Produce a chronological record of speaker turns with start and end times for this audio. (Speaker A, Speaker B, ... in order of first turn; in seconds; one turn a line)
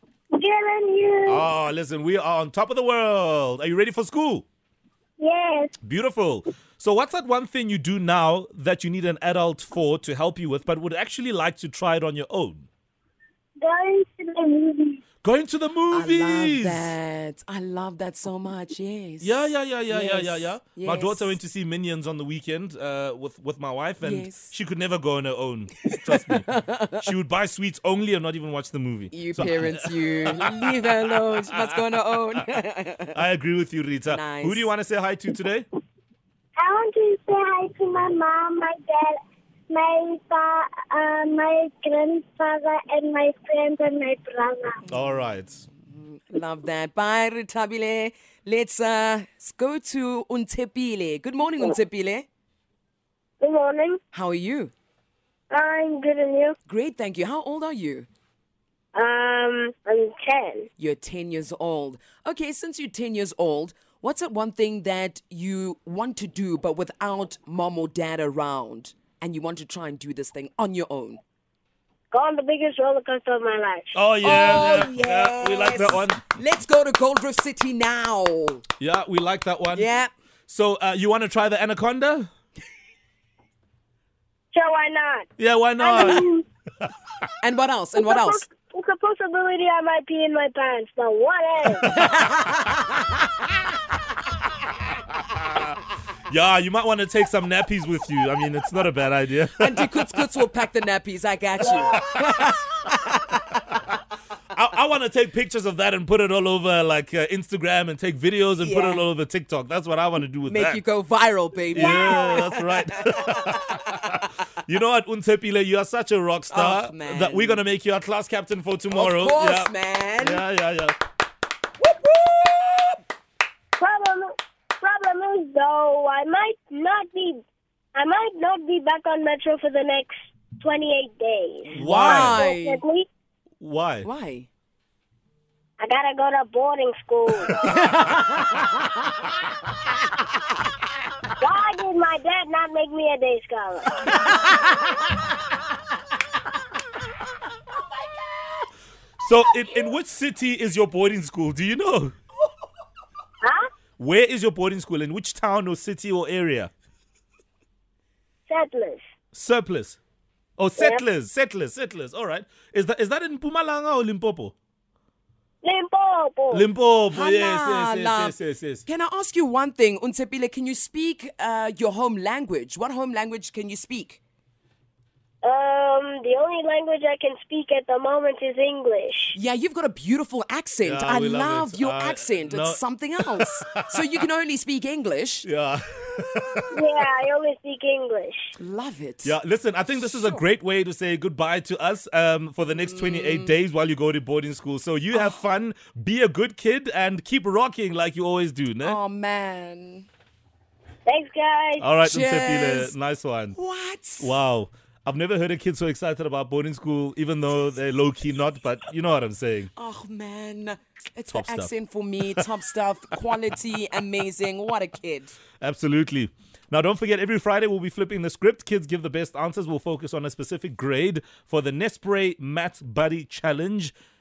Speaker A: 0.3-1.5
Speaker B: 1.3-4.5
Speaker A: 5.2-5.8
Speaker B: 5.8-12.7
Speaker A: 13.6-15.0
Speaker B: 15.2-16.9
Speaker C: 15.9-21.4
Speaker B: 19.2-32.0
Speaker C: 24.0-24.5
Speaker C: 25.9-27.0
Speaker C: 29.1-33.2
Speaker B: 33.1-35.7
Speaker C: 34.1-34.7
Speaker A: 36.6-39.2
Speaker A: 39.7-44.8
Speaker B: 44.9-45.7
Speaker C: 44.9-45.2
Speaker C: 45.8-52.3
Speaker A: 53.4-54.0
Speaker C: 54.1-54.7
Speaker A: 55.5-56.6
Speaker C: 56.7-58.1
Speaker A: 59.0-60.7
Speaker C: 60.8-71.2
Speaker A: 72.1-74.0
Speaker B: 73.9-76.3
Speaker C: 74.2-78.6
Speaker B: 78.8-79.9
Speaker C: 79.8-80.1
Speaker B: 80.5-82.3
Speaker A: 84.5-85.3
Speaker B: 85.4-86.3
Speaker A: 85.8-86.5
Speaker C: 87.4-88.5
Speaker A: 88.0-91.9
Speaker B: 91.8-92.1
Speaker C: 91.9-93.0
Speaker B: 96.3-100.3
Speaker C: 99.6-103.4
Speaker B: 104.5-110.8
Speaker C: 108.6-109.0
Speaker C: 110.5-114.0
Speaker B: 111.7-121.0
Speaker A: 111.8-112.5
Speaker C: 116.5-117.6
Speaker C: 118.9-120.4
Speaker C: 121.8-123.0
Speaker A: 123.8-133.1
Speaker C: 131.7-132.8
Speaker B: 131.8-132.4
Speaker B: 133.6-134.1
Speaker C: 134.0-134.5
Speaker A: 135.8-137.7
Speaker C: 137.6-138.6
Speaker A: 141.4-144.1
Speaker B: 149.2-152.1
Speaker A: 153.4-153.7
Speaker B: 154.0-156.7
Speaker A: 158.5-159.0
Speaker B: 159.3-160.0
Speaker B: 160.6-164.5
Speaker A: 160.8-161.0
Speaker A: 165.6-166.7
Speaker B: 166.5-168.8
Speaker C: 167.1-174.2
Speaker A: 175.4-179.4
Speaker C: 179.3-185.5
Speaker B: 180.8-184.0
Speaker B: 185.4-186.9
Speaker A: 186.7-188.5
Speaker C: 188.6-189.4
Speaker B: 189.2-199.0
Speaker C: 189.9-190.4
Speaker C: 192.8-193.5
Speaker C: 195.1-195.4
Speaker C: 198.8-200.1
Speaker A: 201.1-201.9
Speaker B: 201.8-203.6
Speaker C: 202.0-202.9
Speaker C: 203.6-204.4
Speaker B: 204.2-209.7
Speaker C: 209.8-215.4
Speaker B: 211.3-211.7
Speaker B: 215.6-223.9